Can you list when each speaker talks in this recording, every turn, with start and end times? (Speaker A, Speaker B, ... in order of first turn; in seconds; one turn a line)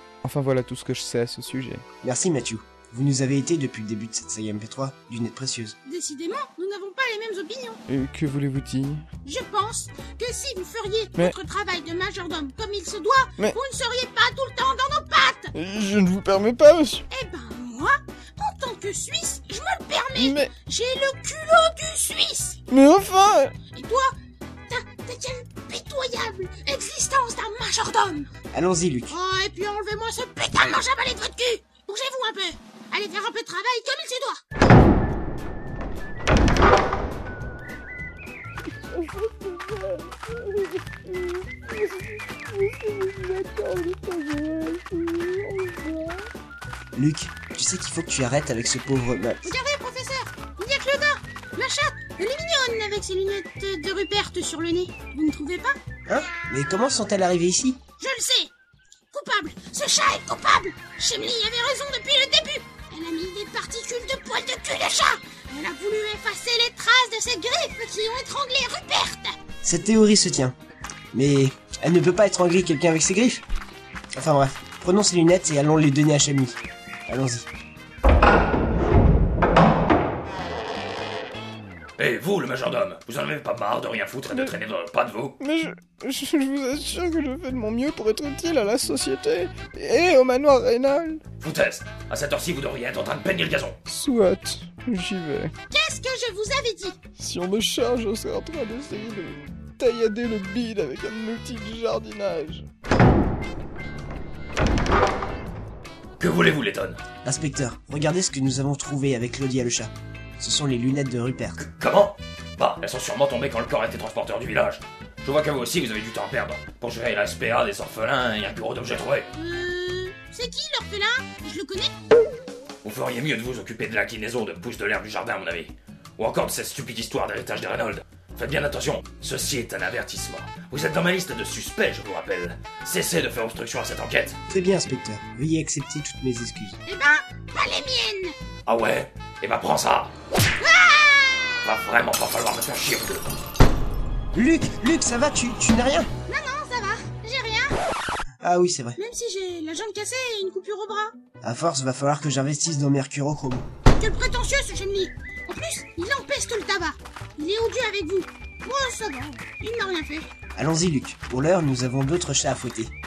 Speaker A: 0.2-1.8
Speaker B: 2.0-5.7
Speaker C: 5.8-7.8
Speaker A: 7.9-9.0
Speaker C: 9.2-15.5
Speaker A: 15.5-17.0
Speaker C: 17.1-22.6
Speaker A: 20.1-20.5
Speaker A: 22.7-23.5
Speaker C: 23.7-24.1
Speaker C: 24.7-28.3
Speaker B: 28.5-29.2
Speaker C: 29.1-34.4
Speaker A: 38.9-46.2
Speaker B: 46.9-49.4
Speaker C: 49.4-55.8
Speaker B: 56.1-57.8
Speaker C: 58.0-58.5
Speaker C: 59.1-69.4
Speaker B: 69.6-70.5
Speaker B: 71.1-73.4
Speaker B: 74.1-77.5
Speaker D: 82.0-85.3
Speaker A: 84.3-84.5
Speaker A: 85.4-91.2
Speaker D: 91.4-93.8
Speaker A: 93.9-95.5
Speaker C: 95.7-97.0
Speaker A: 97.2-102.7
Speaker D: 106.2-107.0
Speaker B: 107.2-111.6
Speaker D: 111.6-119.3
Speaker C: 119.3-121.9
Speaker D: 122.8-134.4
Speaker B: 134.5-136.8
Speaker C: 136.8-138.3
Speaker D: 138.7-140.1
Speaker C: 140.6-141.6
Speaker D: 141.6-143.3
Speaker B: 144.3-146.1
Speaker C: 146.3-147.8
Speaker B: 148.4-149.0
Speaker C: 149.0-151.1
Speaker B: 151.4-153.7
Speaker C: 154.0-160.3
Speaker B: 160.5-162.9